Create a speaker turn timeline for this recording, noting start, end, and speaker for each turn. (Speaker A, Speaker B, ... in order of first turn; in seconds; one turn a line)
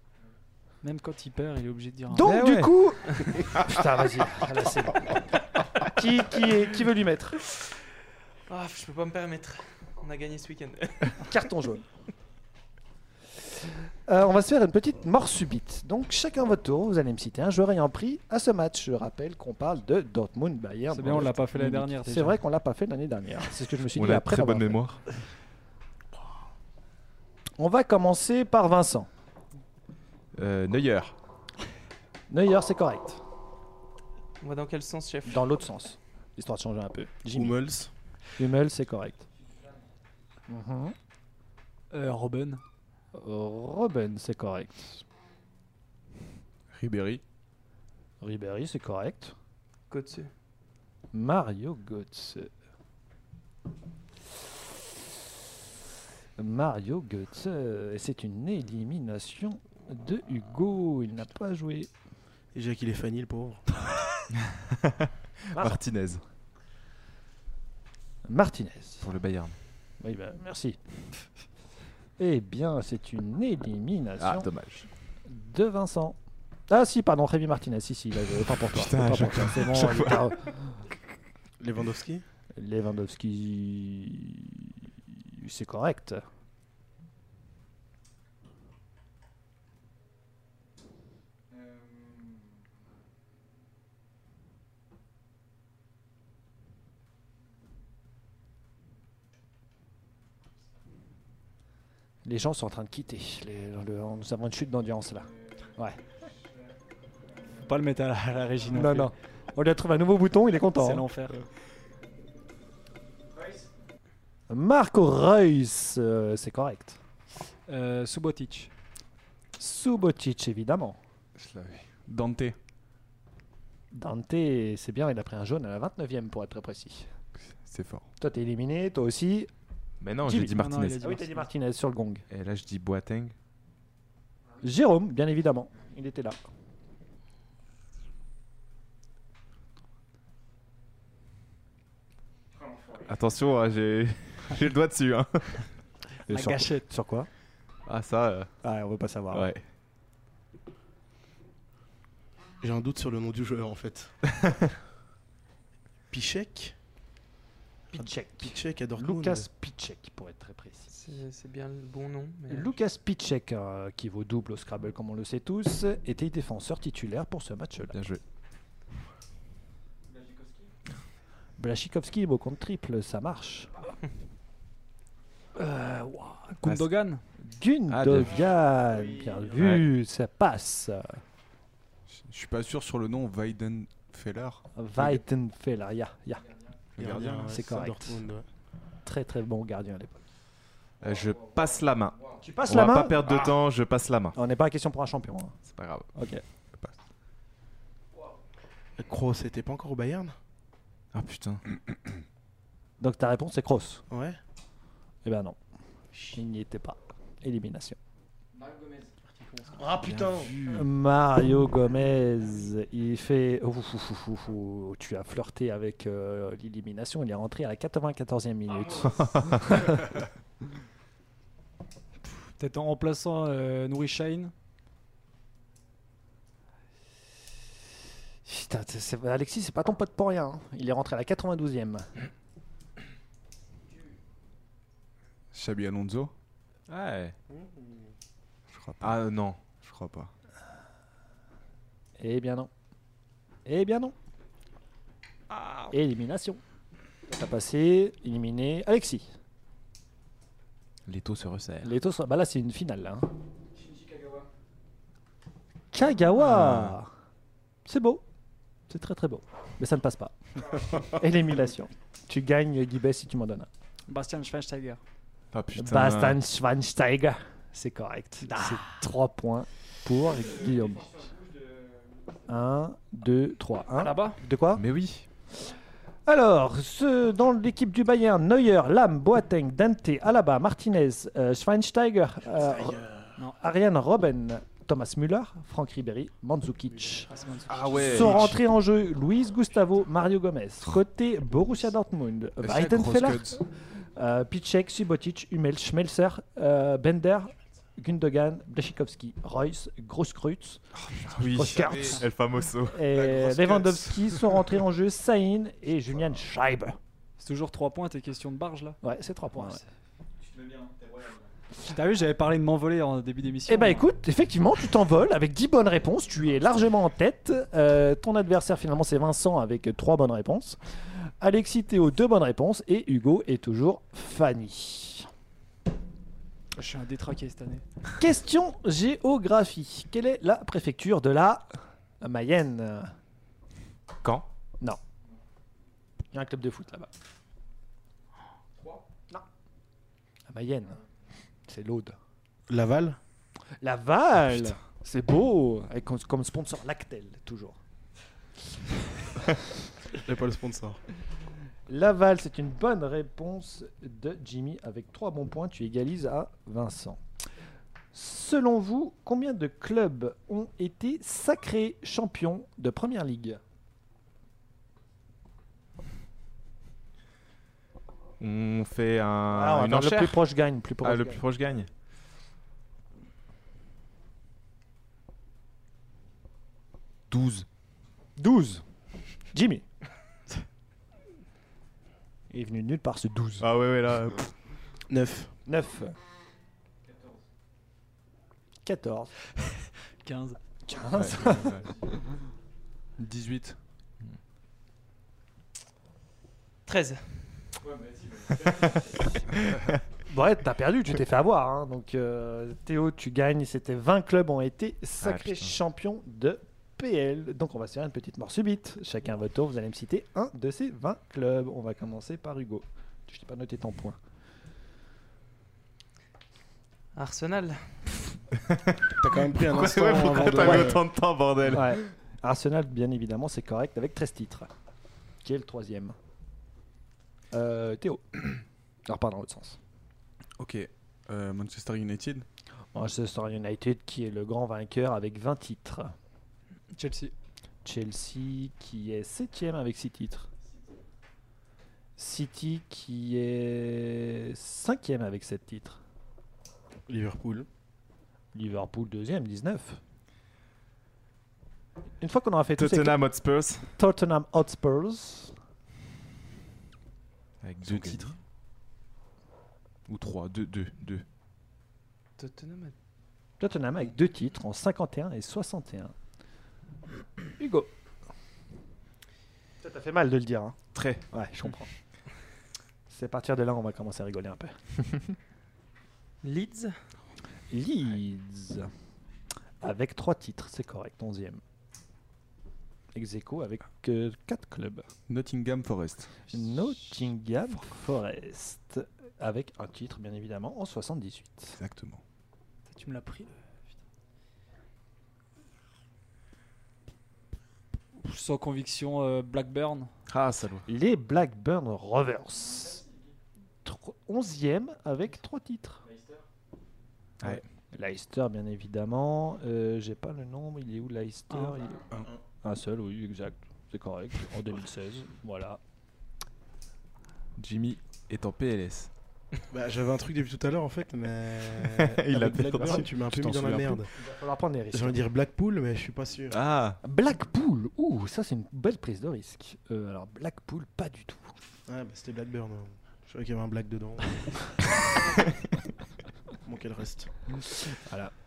Speaker A: 0.8-2.3
Speaker B: 2.1-5.3
Speaker C: 2.3-2.7
Speaker B: 5.8-7.4
Speaker D: 8.5-11.3
Speaker B: 11.2-11.8
Speaker B: 14.1-24.8
Speaker A: 20.9-22.4
Speaker C: 23.9-25.0
Speaker B: 27.6-29.1
Speaker C: 30.4-31.1
Speaker B: 32.3-33.2
Speaker D: 34.4-35.5
Speaker B: 35.3-37.6
Speaker E: 37.3-37.9
Speaker B: 38.4-39.3
Speaker B: 40.5-41.0
Speaker A: 41.9-42.6
Speaker B: 43.1-45.0
Speaker F: 46.7-47.2
Speaker B: 48.2-49.4
Speaker D: 49.9-50.3
Speaker B: 51.1-52.5
Speaker B: 56.4-61.9
Speaker E: 62.5-63.6
Speaker C: 64.5-66.2
Speaker B: 65.5-65.8
Speaker B: 68.2-69.0
Speaker C: 69.0-69.6
Speaker B: 70.0-70.8
Speaker B: 72.2-74.5
Speaker C: 74.2-74.9
Speaker B: 75.3-76.2
Speaker B: 76.7-80.8
Speaker C: 78.6-80.4
Speaker E: 81.6-82.2
Speaker B: 82.6-86.2
Speaker B: 102.2-106.0
Speaker A: 107.5-109.1
Speaker B: 108.7-111.1
Speaker A: 110.8-111.4
Speaker B: 114.5-117.0
Speaker A: 117.7-118.7
Speaker B: 119.6-121.0
Speaker F: 121.4-122.6
Speaker B: 123.9-127.1
Speaker F: 127.4-128.1
Speaker B: 128.2-129.5
Speaker C: 130.0-131.1
Speaker B: 130.2-132.3
Speaker A: 130.4-131.5
Speaker C: 132.3-133.3
Speaker B: 134.6-136.4
Speaker C: 143.0-145.7
Speaker B: 146.3-147.3
Speaker A: 146.3-146.9
Speaker C: 147.9-148.5
Speaker B: 148.6-149.5
Speaker C: 149.3-149.6
Speaker E: 152.6-154.1
Speaker E: 156.1-156.8
Speaker B: 157.9-160.9
Speaker E: 158.4-159.5
Speaker D: 160.9-162.8
Speaker B: 162.5-167.9
Speaker C: 167.9-168.2
Speaker B: 171.6-173.7
Speaker B: 175.6-176.5
Speaker A: 176.5-177.2
Speaker C: 176.7-176.9
Speaker B: 177.4-181.2
Speaker C: 177.9-178.4
Speaker C: 179.5-179.9
Speaker F: 182.1-185.2
Speaker B: 184.8-186.5
Speaker F: 187.0-187.6
Speaker E: 187.0-188.5
Speaker B: 187.5-188.2
Speaker B: 189.1-190.2
Speaker C: 191.0-194.4
Speaker B: 192.4-193.5
Speaker B: 194.3-195.6
Speaker C: 195.7-196.1
Speaker B: 196.2-196.4
Speaker E: 199.0-200.3
Speaker C: 201.1-201.7
Speaker B: 203.0-204.0
Speaker E: 204.1-204.4
Speaker B: 205.2-205.6
Speaker B: 206.3-208.0
Speaker E: 209.8-210.5
Speaker C: 209.9-210.5
Speaker B: 210.6-220.2
Speaker A: 222.6-224.5
Speaker B: 228.4-232.1
Speaker F: 235.5-236.3
Speaker C: 236.9-237.3
Speaker E: 237.5-238.1
Speaker F: 238.7-240.3
Speaker C: 239.0-239.6
Speaker B: 242.2-242.7
Speaker B: 243.7-244.2
Speaker B: 245.9-246.6
Speaker B: 247.3-249.3
Speaker C: 251.1-251.9
Speaker B: 251.8-253.3
Speaker B: 255.9-257.1
Speaker C: 256.4-257.0
Speaker B: 257.9-258.2
Speaker B: 258.9-263.7
Speaker A: 264.1-265.0
Speaker C: 265.5-266.4
Speaker B: 265.8-271.3
Speaker A: 268.5-268.7
Speaker B: 272.5-274.8
Speaker A: 274.0-274.4
Speaker C: 274.8-275.3
Speaker B: 276.3-287.3
Speaker A: 287.3-288.5
Speaker C: 287.7-288.5
Speaker F: 287.8-288.4
Speaker B: 287.9-300.8
Speaker F: 292.6-293.6
Speaker F: 301.0-302.2
Speaker C: 301.3-303.1
Speaker B: 301.5-302.2
Speaker B: 302.9-307.0
Speaker F: 303.1-304.3
Speaker A: 307.4-309.0
Speaker B: 309.0-309.8
Speaker A: 309.6-309.9
Speaker A: 311.9-314.1
Speaker B: 313.7-320.8
Speaker B: 321.4-325.3
Speaker A: 326.8-327.8
Speaker B: 328.2-331.7
Speaker B: 332.2-333.1
Speaker B: 336.3-337.1
Speaker B: 340.5-341.0
Speaker B: 341.6-342.2
Speaker E: 342.7-343.2
Speaker B: 343.8-347.8
Speaker E: 350.2-351.0
Speaker B: 351.9-357.2
Speaker B: 358.1-363.6
Speaker C: 368.4-370.4
Speaker B: 369.5-371.4
Speaker C: 371.0-371.9
Speaker C: 377.3-377.7
Speaker B: 378.4-378.9
Speaker B: 379.5-379.9
Speaker B: 382.5-383.7
Speaker C: 383.6-384.5
Speaker E: 385.1-385.5
Speaker B: 385.7-386.2
Speaker B: 388.8-389.3
Speaker A: 390.2-390.6
Speaker B: 390.9-391.9
Speaker C: 391.1-392.0
Speaker F: 393.2-393.8
Speaker D: 396.9-397.7
Speaker B: 400.3-414.2
Speaker C: 405.2-405.8
Speaker D: 417.1-418.2
Speaker C: 418.7-422.1
Speaker E: 419.2-421.1
Speaker B: 420.6-420.9
Speaker B: 421.7-424.7
Speaker B: 425.4-426.2
Speaker B: 427.5-429.8
Speaker F: 430.6-432.5
Speaker B: 432.9-436.1
Speaker A: 436.9-437.3
Speaker B: 437.8-440.5
Speaker B: 442.2-446.0
Speaker E: 447.1-447.7
Speaker B: 448.5-450.0
Speaker B: 452.2-453.2
Speaker C: 452.8-453.9
Speaker B: 453.9-455.6
Speaker C: 457.6-458.3
Speaker F: 457.9-458.3
Speaker C: 460.1-461.2
Speaker D: 462.4-462.9
Speaker B: 463.6-466.1
Speaker B: 467.6-467.9
Speaker B: 469.8-470.8
Speaker C: 470.9-471.2
Speaker B: 471.3-471.9
Speaker B: 473.1-475.4
Speaker D: 476.4-476.9
Speaker B: 477.7-478.9
Speaker B: 479.8-481.6
Speaker B: 483.1-485.1
Speaker F: 485.3-486.3
Speaker B: 486.5-491.8
Speaker F: 491.8-492.2
Speaker A: 492.9-493.6
Speaker A: 498.2-500.1
Speaker C: 500.3-500.9
Speaker B: 500.9-503.1
Speaker B: 503.8-506.1
Speaker B: 507.9-512.1
Speaker A: 511.5-511.8
Speaker B: 512.6-515.8
Speaker C: 517.6-519.1
Speaker E: 519.7-524.1
Speaker C: 521.9-524.0
Speaker B: 522.3-523.1
Speaker B: 524.2-525.2
Speaker E: 524.9-526.6
Speaker C: 526.5-527.0
Speaker B: 527.0-531.6
Speaker E: 531.9-534.7
Speaker E: 536.7-537.3
Speaker B: 537.9-538.3